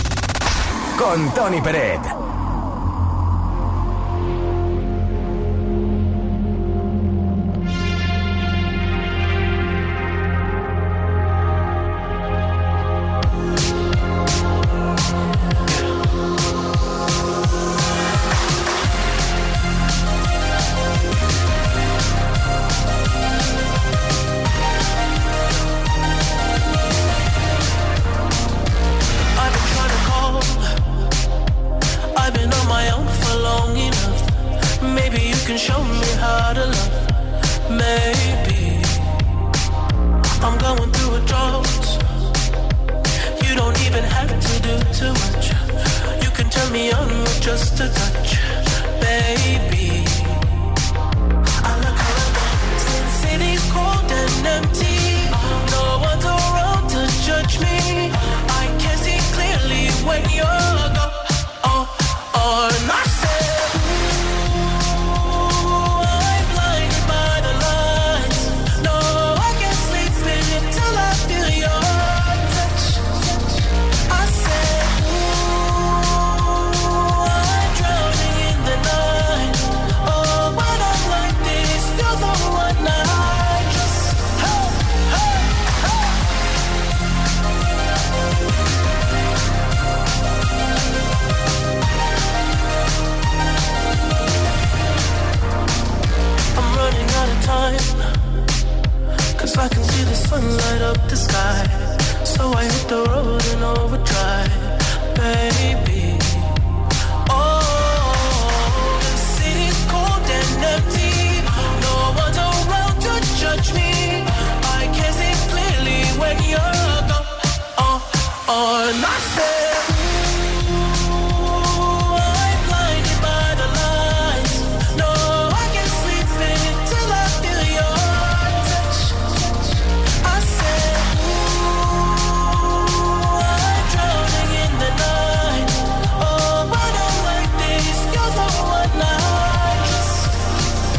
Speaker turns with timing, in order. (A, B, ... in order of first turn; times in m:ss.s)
0:29.4-0:30.8 A
0:32.1-0:37.1 A
0:37.6-0:39.1 A
0:40.4-0:42.0 A
0:43.4-0:50.6 A
0:51.6-1:04.2 A
1:04.8-1:25.9 A
1:36.5-1:38.2 A
1:39.4-1:46.6 A
1:47.2-2:00.1 A
2:01.0-2:20.4 A